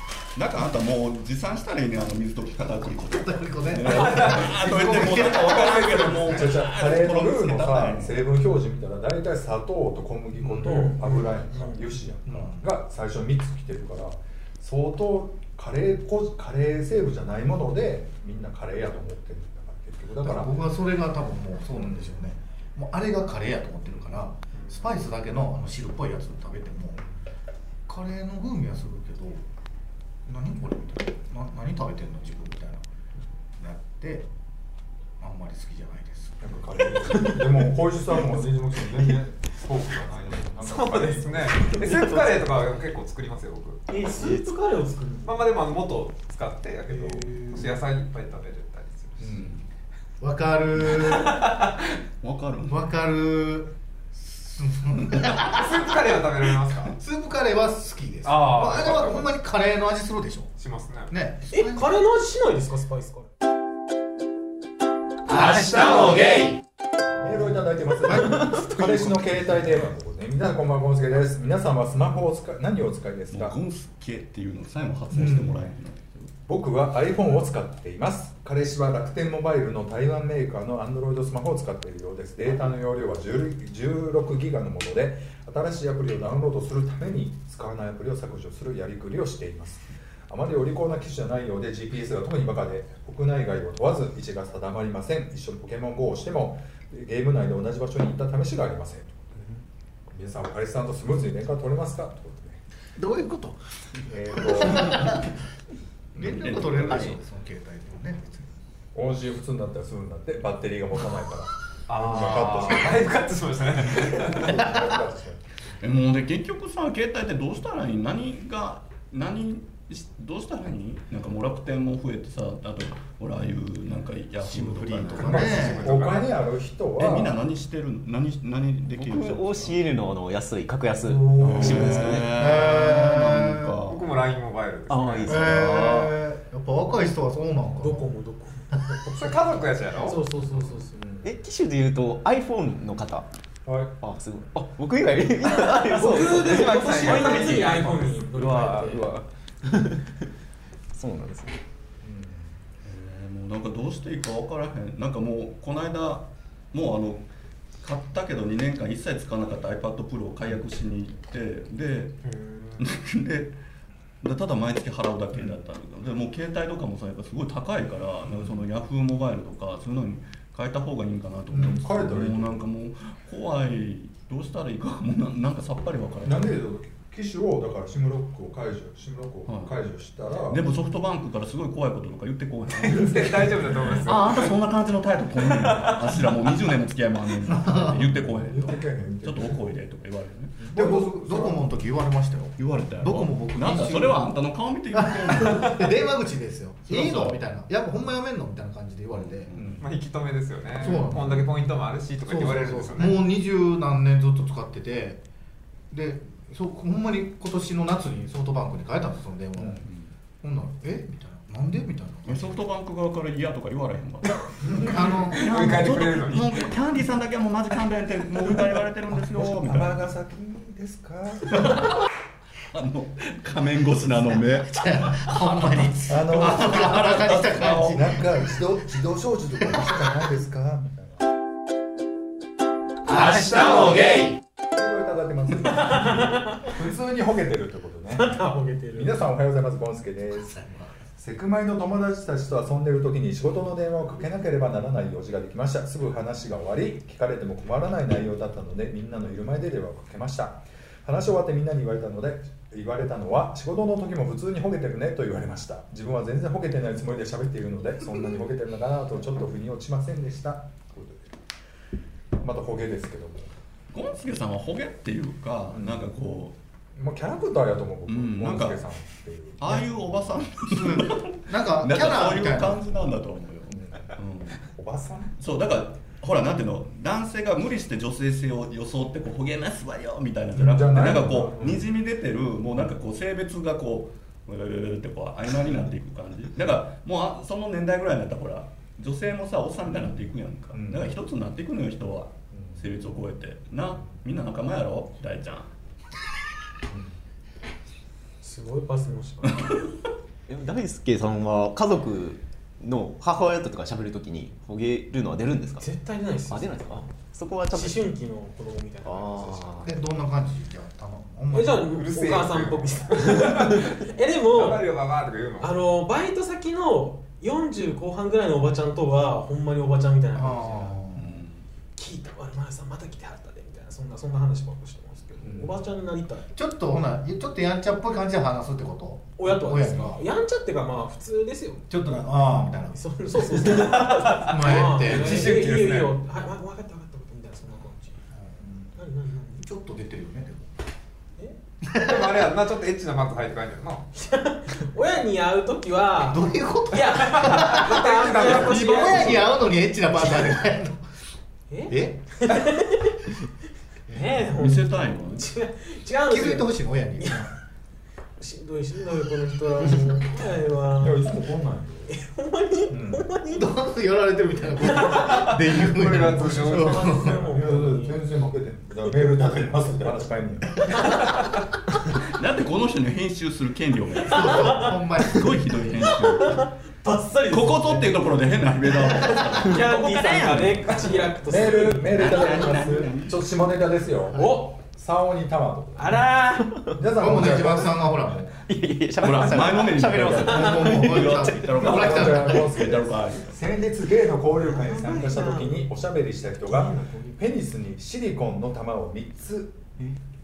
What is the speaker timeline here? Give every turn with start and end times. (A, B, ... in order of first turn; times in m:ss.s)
0:00.4-0:08.2 A
0:02.9-0:06.6 B
0:04.0-0:04.5 C
0:06.2-0:20.6 D
0:10.4-0:11.9 E
0:12.3-0:12.6 B
0:20.2-0:27.0 B
0:21.8-0:22.2 D
0:27.9-0:29.4 B
0:30.3-0:32.8 B
0:33.6-0:34.3 B
0:35.2-0:36.4 B
0:36.4-0:41.8 D
0:40.6-0:43.9 C
0:43.9-0:45.4 E
0:45.2-0:49.4 C
0:46.9-0:47.8 E
0:49.2-0:49.6 D
0:50.2-0:51.5 B
0:50.9-0:51.7 C
0:52.2-0:53.0 A
0:52.7-0:56.0 B
0:55.4-0:57.0 C
0:57.0-1:00.5 B
0:58.2-0:59.3 C
1:00.6-1:01.1 C
1:01.1-1:02.0 B
1:01.5-1:03.3 E
1:05.3-1:06.5 C
1:07.2-1:13.6 D
1:07.2-1:09.9 B
1:13.3-1:16.3 A
1:15.1-1:15.6 B
1:16.5-1:39.3 D
1:40.1-1:42.6 D
1:43.0-1:45.3 B
1:44.1-1:45.2 D
1:46.2-1:48.5 B
1:46.2-1:47.2 A
1:49.0-1:53.2 D
1:51.9-1:54.7 C
1:54.1-1:55.4 D
1:55.8-2:05.7 A
2:04.4-2:05.9 B
2:05.2-2:07.4 D
2:05.2-2:06.3 C
2:07.0-2:09.9 A
2:08.9-2:12.3 F
2:11.0-2:13.8 B
2:11.4-2:12.0 D
2:11.4-2:14.1 A
2:13.8-2:15.6 C
2:14.9-2:16.1 F
2:15.2-2:18.1 B
2:15.7-2:16.1 A
2:17.8-2:18.9 E
2:19.1-2:20.2 C
2:20.0-2:21.1 E
2:21.0-2:21.3 D
2:21.2-2:23.3 F
2:23.7-2:24.0 D
2:24.0-2:27.6 F
2:25.6-2:29.2 E
2:26.1-2:28.2 C
2:28.3-2:30.1 F
2:30.9-2:31.6 F
2:32.0-2:32.6 D
2:32.8-2:37.3 A
2:37.8-2:42.2 A
2:42.3-2:42.8 C
2:42.8-2:43.6 A
2:44.2-2:56.6 A
2:45.3-2:45.6 D
2:48.2-2:48.6 D
2:51.5-2:52.6 D
2:56.2-3:00.7 D
2:59.5-2:59.9 A
3:00.5-3:10.6 A
3:02.8-3:04.5 C
3:05.5-3:06.0 C
3:07.5-3:08.8 B
3:08.1-3:09.6 D
3:10.6-3:11.6 D
3:10.7-3:14.3 B
3:12.6-3:15.9 A
3:14.9-3:19.5 B
3:16.9-3:17.4 A
3:19.1-3:19.8 A
3:19.6-3:19.9 D
3:19.8-3:23.2 C
3:20.8-3:21.5 B
3:22.2-3:25.2 B
3:25.9-3:29.9 B
3:29.6-3:29.9 D
3:30.4-3:32.6 B
3:32.3-3:40.1 A
3:34.6-3:35.5 B
3:35.3-3:36.7 C
3:39.2-3:41.8 D
3:41.5-3:42.0 A
3:42.7-3:45.3 A
3:44.4-3:48.5 B
3:46.1-3:47.2 D
3:46.3-3:48.2 A
3:47.9-3:51.2 D
3:49.6-3:50.0 B
3:53.2-3:54.2 C
3:54.7-3:58.4 D
3:55.8-3:56.6 E
3:58.2-3:59.2 E
3:59.0-4:21.3 D
4:00.6-4:00.9 B
4:22.4-4:23.5 D
4:23.9-4:26.6 A
4:25.7-4:26.1 D
4:27.0-4:30.4 D
4:28.1-4:28.8 A
4:29.6-4:34.6 A
4:30.6-4:32.8 B
4:33.7-4:34.1 D
4:34.7-4:35.4 D
4:35.4-4:55.7 A
4:40.5-4:41.9 D
4:49.9-4:51.1 D
4:52.5-4:53.1 D
4:56.9-4:57.2 D
4:58.4-4:59.9 E
5:00.5-5:05.9 F
5:05.8-5:07.1 E
5:06.5-5:08.2 F
5:07.7-5:09.9 E
5:09.0-5:09.9 F
5:09.8-5:12.0 B
5:11.5-5:14.9 E
5:11.9-5:15.8 C
5:15.6-5:21.2 E
5:20.4-5:21.3 B
5:21.1-5:21.7 A
5:22.0-5:26.5 E
5:25.4-5:25.9 D
5:26.5-5:30.2 B
5:29.4-5:32.0 E
5:31.9-5:33.8 B
5:32.9-5:38.3 E
5:33.9-5:36.2 C
5:34.4-5:35.6 B
5:38.4-5:38.9 B
5:39.0-5:39.6 E
5:39.5-5:40.8 B
5:41.8-5:42.5 B
5:42.0-5:44.1 C
5:44.2-5:49.5 E
5:46.2-5:51.0 B
5:47.3-5:49.5 C
5:51.7-5:53.3 E
5:51.9-5:52.3 B
5:54.1-5:57.5 E
5:54.4-5:55.5 A
5:56.3-5:57.5 B
5:58.4-6:01.5 E
6:01.0-6:02.2 D
6:02.1-6:03.7 E
6:02.9-6:03.3 D
6:03.5-6:07.6 B
6:04.8-6:05.8 E
6:05.3-6:07.2 C
6:06.4-6:08.2 E
6:07.5-6:11.0 D
6:12.2-6:16.7 A
6:14.2-6:16.2 B
6:14.3-6:15.0 E
6:16.0-6:18.5 E
6:17.5-6:21.3 A
6:19.0-6:22.9 E
6:21.5-6:26.2 D
6:22.0-6:23.4 A
6:24.3-6:24.8 E
6:26.0-6:26.9 E
6:26.9-6:28.1 D
6:27.1-6:28.5 B
6:28.7-6:32.0 F
6:29.2-6:33.6 A
6:30.2-6:32.8 B
6:31.8-6:39.8 D
6:34.5-6:35.8 E